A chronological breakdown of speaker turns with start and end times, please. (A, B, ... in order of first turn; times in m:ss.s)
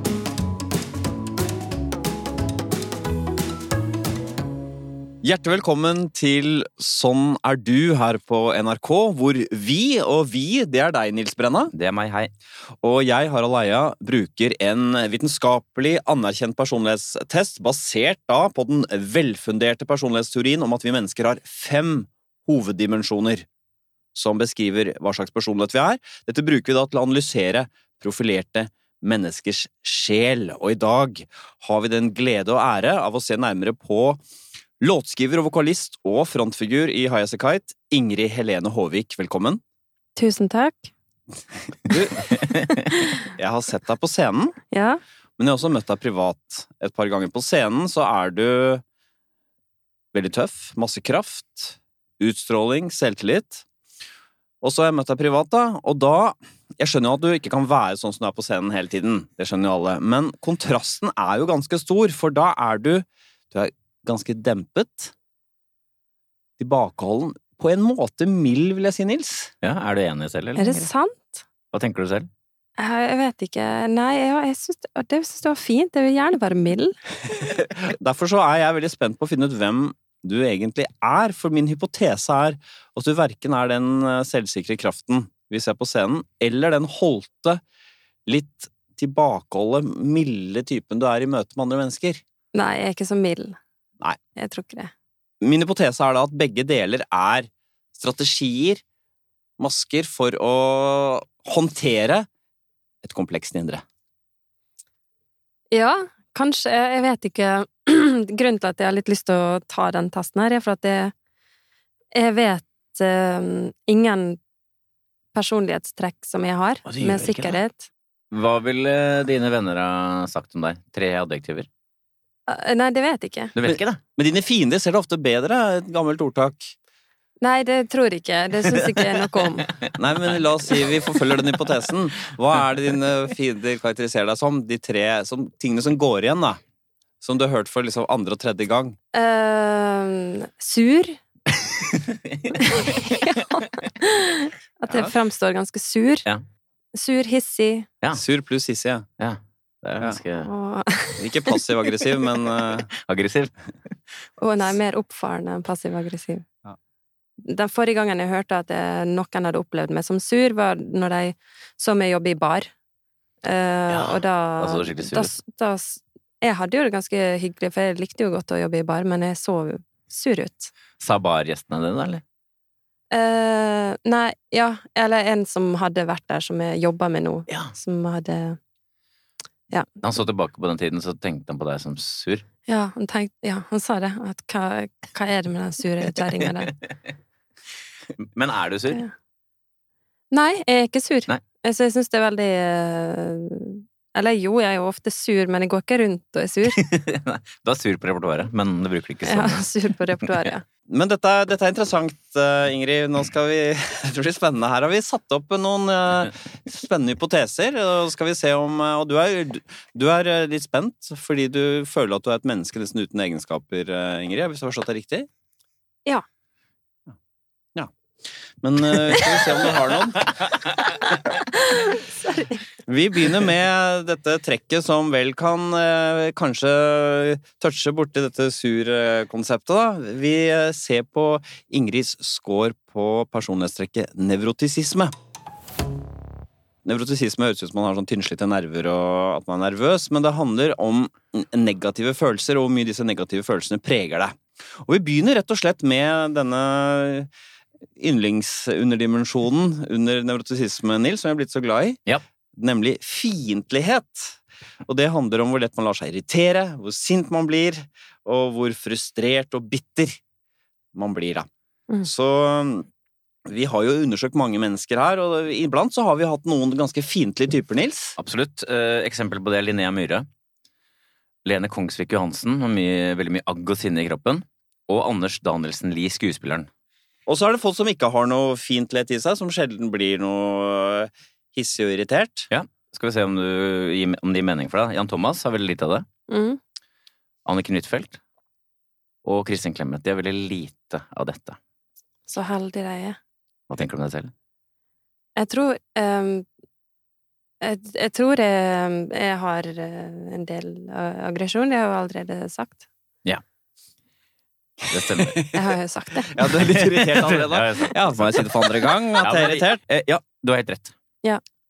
0:05.2-0:11.7 A
0:11.7-0:12.3 B
0:12.8-0:23.5 A
0:24.2-0:34.2 A
0:34.8-0:39.6 A
0:40.2-0:40.9 C
0:41.8-0:42.4 A
0:43.4-0:44.6 A
0:44.7-0:45.0 C
0:45.4-0:48.8 A
0:50.1-0:53.6 A
0:54.6-1:05.1 A
1:06.6-1:09.5 A
1:09.6-1:10.9 B
1:10.6-1:11.4 C
1:11.7-1:12.3 B
1:12.8-1:17.0 C
1:17.4-1:27.6 A
1:28.3-1:32.2 A
1:32.5-1:33.6 C
1:34.4-1:34.9 C
1:35.4-1:38.8 A
1:39.6-1:42.3 A
1:43.0-1:43.8 A
1:45.7-1:51.1 C
1:52.1-1:54.4 C
1:55.3-1:57.9 C
1:56.9-1:57.6 B
1:58.3-2:01.7 B
2:02.5-2:03.5 C
2:03.6-2:04.0 B
2:03.6-2:06.7 A
2:07.4-2:09.8 C
2:10.0-2:16.6 A
2:17.2-2:19.0 A
2:19.1-2:21.2 C
2:22.0-2:23.0 B
2:22.6-2:26.3 C
2:26.9-2:27.9 C
2:28.1-2:29.1 A
2:29.2-2:30.5 B
2:30.4-2:32.3 C
2:31.2-2:32.9 A
2:32.9-2:33.5 B
2:34.4-2:36.5 C
2:37.4-2:42.7 C
2:43.4-2:50.7 C
2:43.9-2:45.3 B
2:51.0-2:52.2 B
2:53.1-2:58.6 C
3:00.0-3:02.4 B
3:02.7-3:06.7 C
3:08.2-3:09.0 B
3:10.3-3:16.8 C
3:16.7-3:19.7 B
3:19.3-3:20.6 C
3:20.2-3:20.5 B
3:20.9-3:35.3 A
3:38.6-3:40.4 A
3:41.1-3:42.6 C
3:42.9-3:55.1 A
3:56.8-4:07.3 A
4:08.0-4:12.0 A
4:12.6-4:20.2 A
4:20.9-4:21.5 A
4:22.0-4:22.9 A
4:23.5-4:28.2 A
4:28.2-4:30.3 B
4:31.4-4:36.7 B
4:37.3-4:42.5 A
4:42.5-4:46.1 B
4:46.3-4:46.6 C
4:47.4-4:48.2 B
4:49.2-4:51.6 B
4:52.3-4:53.2 C
4:53.7-4:54.3 B
4:55.4-4:56.4 C
4:57.6-5:02.8 C
5:04.9-5:05.6 B
5:04.9-5:05.6 A
5:05.5-5:06.4 C
5:06.3-5:09.8 A
5:06.4-5:10.9 B